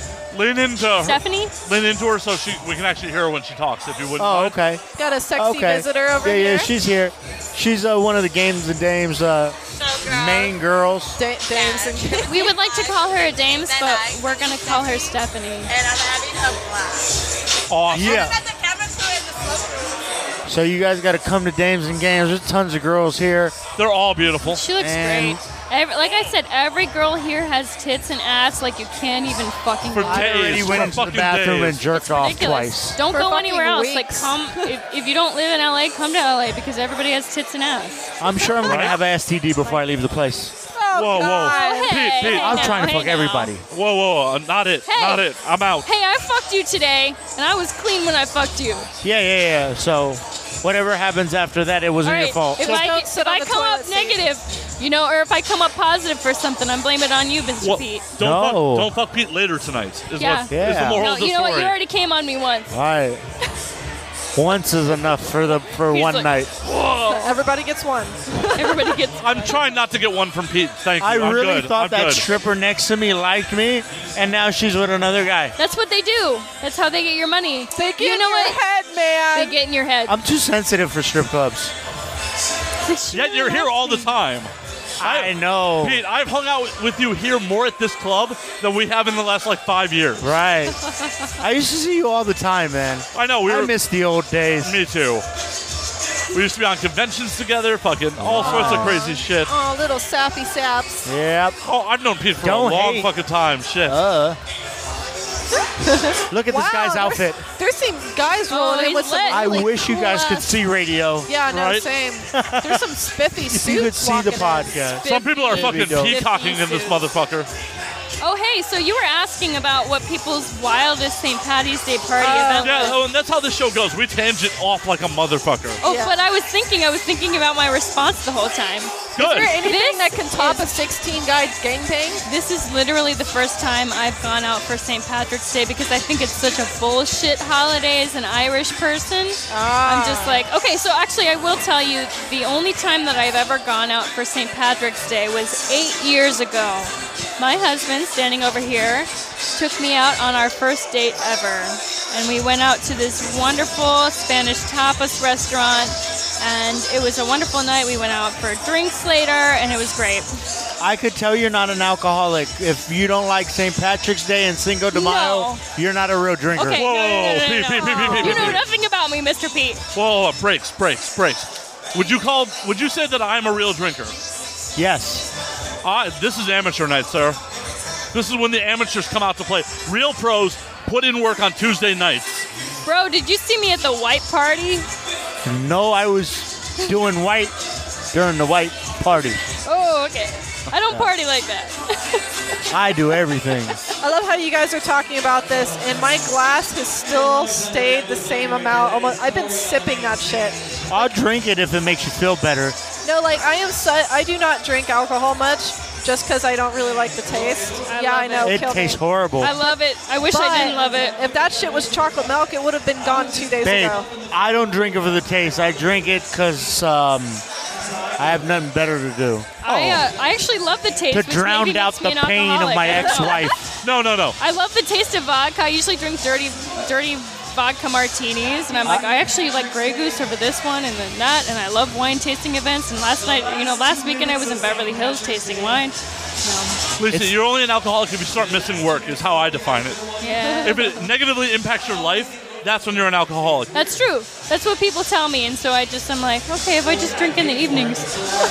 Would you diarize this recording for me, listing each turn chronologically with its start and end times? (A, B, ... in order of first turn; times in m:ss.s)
0:00.3-0:04.6 A
0:01.0-0:01.5 B
0:04.2-0:04.8 C
0:05.0-0:06.7 D
0:05.4-0:11.2 C
0:09.7-0:10.6 E
0:11.2-0:12.5 D
0:11.5-0:17.3 E
0:12.2-0:15.7 B
0:17.7-0:18.3 A
0:17.9-0:20.0 E
0:17.9-0:18.4 C
0:20.5-0:23.6 C
0:23.8-0:24.6 A
0:24.4-0:30.8 B
0:24.8-0:25.4 C
0:29.9-0:32.0 A
0:30.0-0:33.0 C
0:32.0-0:38.1 B
0:33.0-0:34.7 D
0:38.2-0:40.5 C
0:38.6-0:39.0 A
0:40.7-0:42.7 D
0:40.9-0:42.8 A
0:41.2-0:43.5 B
0:42.4-0:43.6 C
0:43.7-0:45.9 A
0:44.9-0:45.3 B
0:45.8-0:48.9 B
0:49.0-0:52.8 C
0:52.0-0:58.1 B
0:52.6-0:54.2 D
0:57.6-1:01.8 A
0:58.2-0:58.9 C
1:00.2-1:02.7 B
1:00.5-1:01.0 C
1:02.7-1:03.2 C
1:04.4-1:06.5 C
1:05.7-1:06.3 B
1:06.6-1:07.3 A
1:07.1-1:09.0 D
1:08.6-1:09.6 B
1:09.2-1:12.3 A
1:11.0-1:15.6 C
1:15.6-1:18.6 B
1:17.8-1:19.6 D
1:19.3-1:20.2 B
1:20.1-1:21.7 C
1:22.9-1:24.1 B
1:23.1-1:30.4 A
1:25.0-1:26.0 C
1:30.2-1:30.8 C
1:31.4-1:34.8 C
1:33.1-1:33.8 A
1:34.6-1:35.2 A
1:36.3-1:39.5 A
1:38.2-1:39.1 C
1:38.4-1:41.1 D
1:41.0-1:41.6 C
1:41.6-1:44.0 A
1:42.4-1:43.1 C
1:43.8-1:44.4 C
1:45.6-1:50.4 D
1:46.3-1:47.4 C
1:48.5-1:50.1 B
1:49.3-1:51.3 C
1:51.3-1:57.0 D
1:51.5-1:51.9 A
1:52.3-1:56.2 C
1:55.0-1:57.5 A
1:58.2-2:03.0 B
2:02.2-2:03.0 D
2:02.6-2:05.8 A
2:05.8-2:10.8 B
2:05.8-2:06.2 D
2:09.2-2:09.6 A
2:09.2-2:12.2 D
2:12.2-2:40.3 B
2:19.5-2:20.4 D
2:40.8-2:46.8 C
2:44.9-2:45.6 B
2:46.6-2:49.8 B
2:46.7-2:48.6 A
2:47.8-2:48.3 D
2:48.1-2:48.6 C
2:49.9-2:54.2 A
2:54.8-2:55.3 C
2:55.8-2:57.4 A
2:58.1-3:02.5 A
3:02.8-3:04.9 B
3:05.4-3:07.6 C
3:08.1-3:09.4 C
3:09.6-3:12.2 B
3:10.7-3:11.1 C
3:12.7-3:13.8 C
3:14.0-3:21.1 D
3:20.9-3:22.8 C
3:23.0-3:29.0 D
3:27.9-3:28.7 B
3:28.4-3:29.6 C
3:29.4-3:31.2 B
3:30.3-3:34.1 D
3:33.6-3:37.4 C
3:38.2-3:39.8 C
3:39.6-3:43.6 B
3:39.7-3:40.0 A
3:41.1-3:43.6 C
3:43.8-3:44.4 A
3:44.4-3:56.8 B
3:57.0-4:00.0 A
3:57.1-3:57.4 C
4:00.2-4:01.0 B
4:00.4-4:00.8 D
4:00.6-4:03.7 A
4:03.7-4:08.1 B